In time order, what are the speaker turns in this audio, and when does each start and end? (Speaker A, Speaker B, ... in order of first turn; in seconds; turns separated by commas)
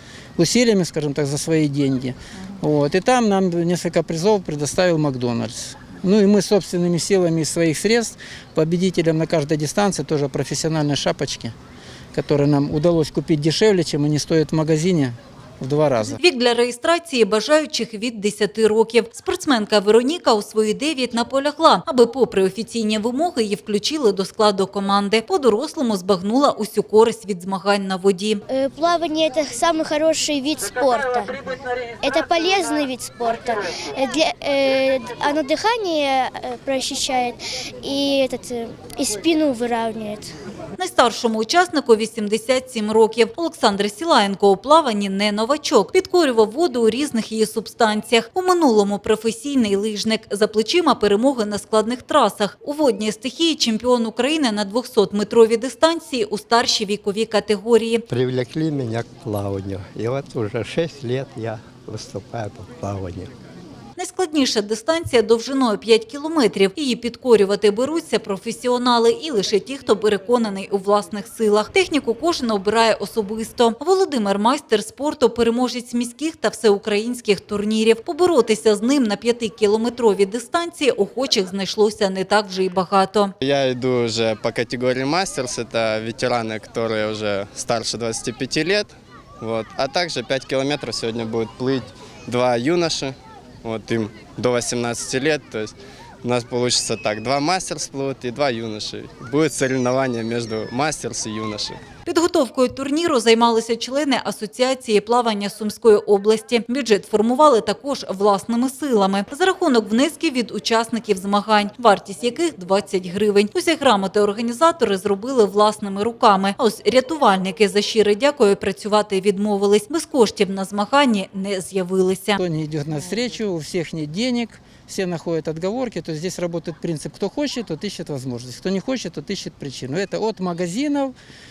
Speaker A: 0.4-11.5, Speaker A: 12.1-16.2, Speaker B: 16.0-28.4, Speaker C: 28.5-31.3, Speaker C: 32.0-40.3, Speaker B: 40.8-58.0, Speaker D: 58.1-63.3, Speaker B: 64.0-83.3, Speaker E: 83.4-101.8, Speaker B: 102.0-122.4, Speaker A: 122.4-131.1